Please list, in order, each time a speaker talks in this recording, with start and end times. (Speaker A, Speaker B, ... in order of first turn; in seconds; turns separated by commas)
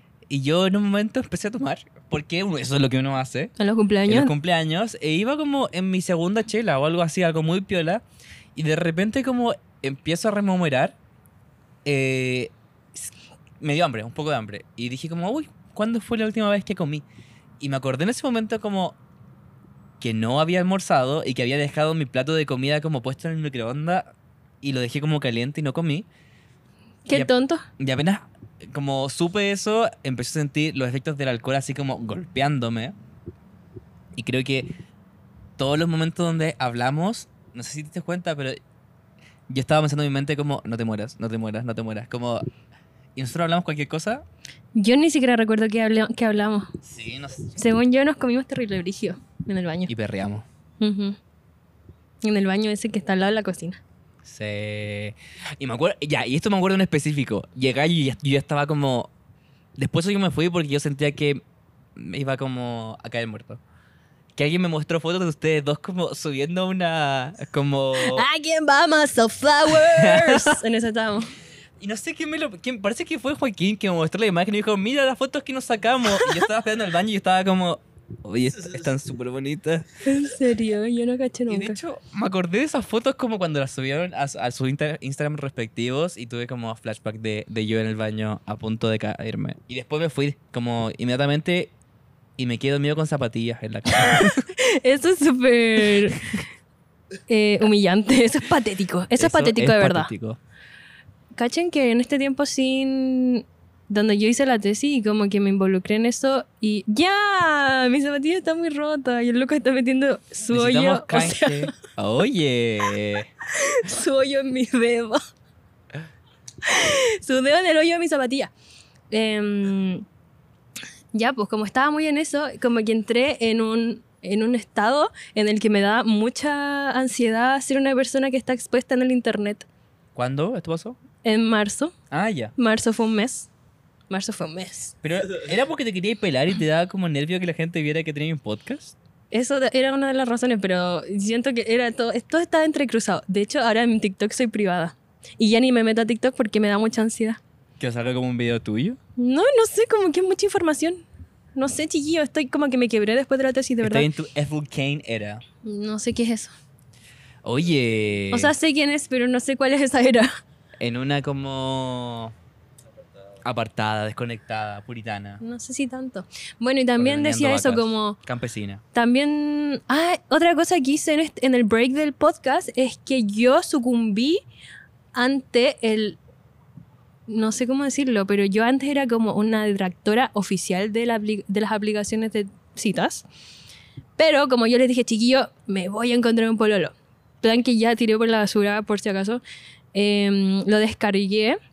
Speaker A: 0.3-3.5, Speaker B: 3.6-4.3, Speaker A: 4.1-8.0, Speaker A: 8.6-11.0, Speaker A: 11.8-17.1, Speaker A: 17.6-19.0, Speaker A: 20.0-26.1, Speaker B: 27.1-27.7, Speaker A: 27.1-32.9, Speaker A: 34.1-34.7, Speaker A: 35.6-38.6, Speaker A: 39.5-42.5, Speaker A: 43.2-44.2, Speaker B: 44.8-46.8, Speaker A: 46.8-47.5, Speaker B: 47.6-49.9, Speaker A: 49.9-50.5, Speaker B: 50.8-51.2, Speaker B: 52.2-53.8, Speaker A: 54.2-59.1, Speaker A: 59.8-61.4, Speaker A: 62.0-63.6, Speaker A: 64.4-68.3, Speaker B: 68.0-71.3, Speaker A: 69.7-70.6, Speaker A: 71.8-79.9, Speaker B: 80.0-81.8, Speaker A: 81.5-91.7, Speaker A: 92.4-94.5, Speaker B: 94.5-96.2, Speaker B: 97.3-100.1, Speaker A: 99.2-100.4, Speaker B: 101.4-111.7, Speaker A: 110.5-113.3, Speaker B: 113.5-115.2, Speaker B: 116.6-118.5, Speaker B: 119.1-120.0, Speaker B: 121.1-129.7, Speaker A: 130.2-131.0, Speaker B: 131.2-131.9, Speaker A: 132.1-132.5, Speaker B: 132.6-133.5, Speaker B: 134.1-134.9, Speaker A: 135.0-138.9, Speaker B: 139.3-147.4, Speaker A: 147.8-149.0, Speaker B: 149.2-151.0, Speaker B: 151.6-154.1, Speaker A: 153.8-155.4, Speaker B: 155.6-156.5, Speaker A: 157.4-158.5, Speaker B: 158.3-160.3, Speaker A: 160.8-162.3, Speaker A: 163.4-165.4, Speaker B: 165.4-168.2, Speaker A: 167.0-168.8, Speaker B: 168.9-174.4, Speaker B: 175.1-176.2, Speaker B: 177.3-183.3, Speaker B: 184.2-189.4, Speaker B: 189.9-191.6